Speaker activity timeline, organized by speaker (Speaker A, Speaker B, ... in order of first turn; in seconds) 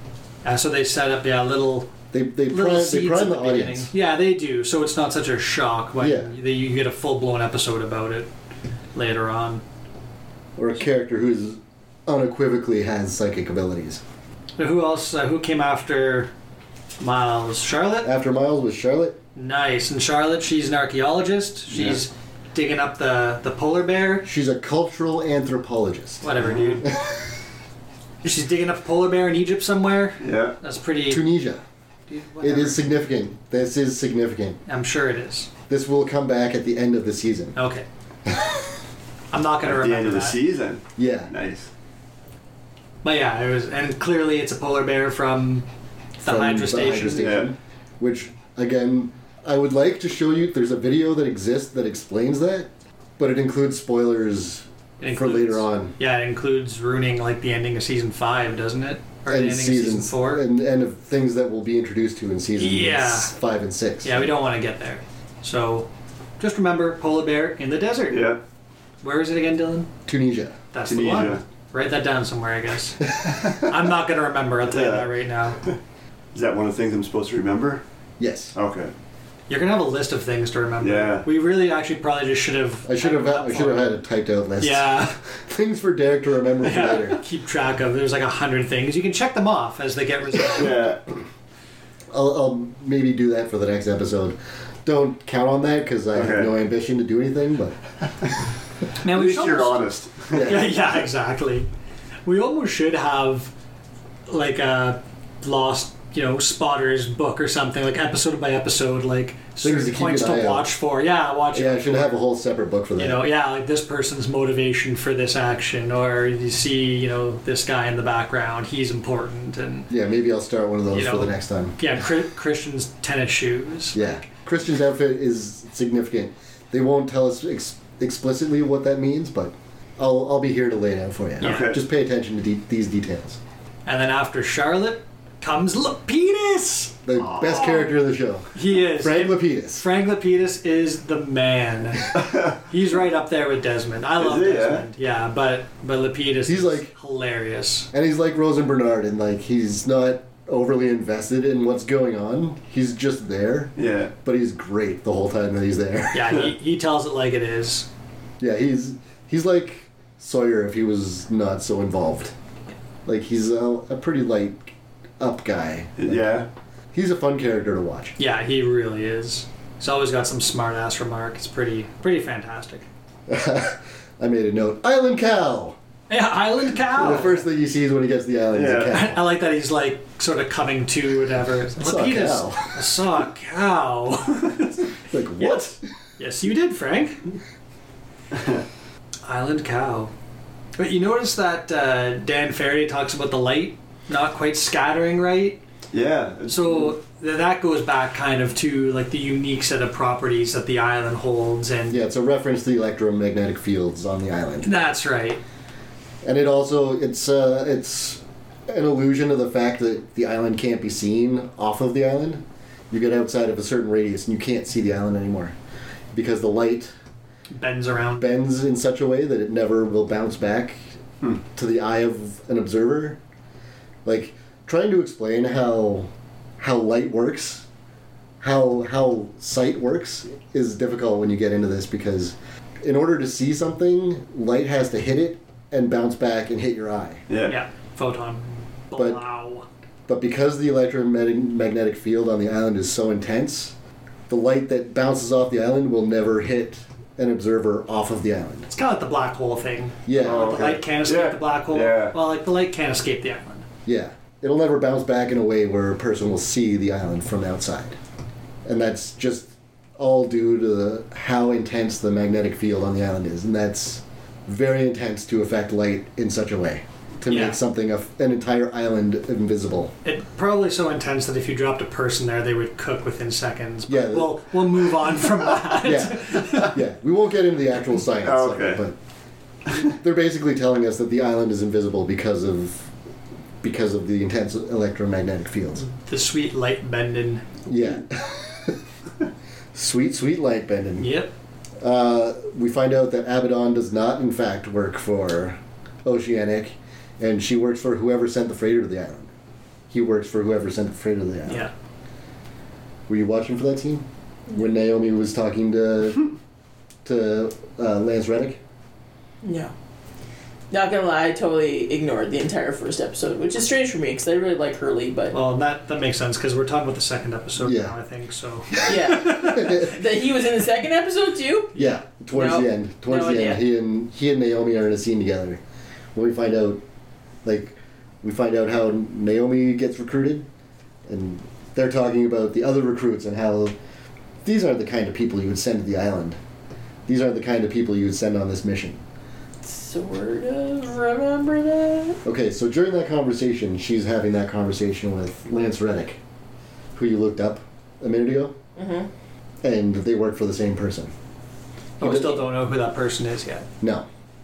Speaker A: 0.4-1.9, 2.5-8.3, 8.9-9.6, 14.6-16.3, 17.0-18.1, 19.4-24.3, 26.2-26.9, 28.2-31.2, 32.1-32.9, 34.7-35.5, 37.5-37.9, 39.3-40.4, 43.0-45.6, 46.2-47.3, 55.0-60.4, 62.6-63.3, 64.0-65.9, 66.4-68.3, 69.0-69.9, 70.7-75.6, 79.5-84.0, 84.6-85.2, 86.6-90.7, 99.0-99.8, 100.4-101.7, 102.2-103.5, 104.3-112.2, 113.0-119.9, 120.9-124.1, 131.4-131.7, 133.8-137.0, 138.5-147.9, 156.1-157.9, 168.2-172.8, 176.1-177.4, 178.9-184.8, 185.4-187.2, 189.2-190.1, 190.8-195.6, 196.5-202.0, 204.6-205.4, 217.5-218.3, 237.4-239.7, 248.7-253.7, 267.3-267.6, 270.0-276.7, 285.8-287.6, 291.0-291.3, 301.4-301.7, 315.3-319.9, 352.0-353.7
Speaker B: 2.1-3.9, 6.0-6.3, 10.6-14.0, 18.0-19.2, 24.2-26.3, 26.8-27.3, 31.1-31.6, 32.4-34.6, 35.7-37.5, 38.2-38.6, 41.0-41.3, 46.2-55.9, 59.3-64.3, 70.1-70.5, 78.2-78.5, 82.8-87.2, 92.1-97.8, 100.3-100.7, 109.6-110.7, 111.5-113.2, 119.9-121.8, 123.9-133.4, 137.0-139.8, 146.4-146.9, 147.9-156.4, 158.4-162.3, 163.1-168.2, 173.3-175.8, 176.9-179.2, 181.8-182.8, 185.1-185.8, 201.9-204.7, 206.2-215.5, 216.1-216.9, 218.2-220.8, 221.4-223.2, 224.0-227.7, 228.4-237.2, 238.9-239.2, 240.1-243.7, 244.3-248.7, 250.1-250.7, 253.8-258.0, 258.6-269.9, 273.9-274.4, 275.8-278.9, 279.7-282.9, 283.6-285.8, 287.7-288.8, 289.7-291.1, 291.8-299.3, 299.9-301.6, 303.1-306.3, 307.0-308.6, 317.6-317.9, 319.4-319.9, 321.7-325.6, 326.1-326.8, 327.4-330.4, 331.1-333.7, 334.4-336.4, 337.1-339.0, 342.2-346.2, 346.9-348.5, 349.6-351.1, 352.0-352.4, 353.8-354.1
Speaker C: 30.2-30.6, 39.6-41.7, 47.2-47.5, 68.1-68.4, 70.8-71.4, 74.7-75.1, 76.3-77.8, 78.5-78.9, 80.8-81.2, 90.5-91.0, 96.1-96.5, 99.0-100.6, 131.4-131.8, 144.2-144.8, 153.8-154.1, 166.0-166.5, 178.5-179.0, 188.3-188.6, 195.9-196.9, 237.3-237.5, 250.2-252.1, 278.2-278.8
Speaker D: 309.4-309.7, 310.7-315.3, 318.9-321.8, 322.3-323.6, 339.6-342.2, 348.8-349.1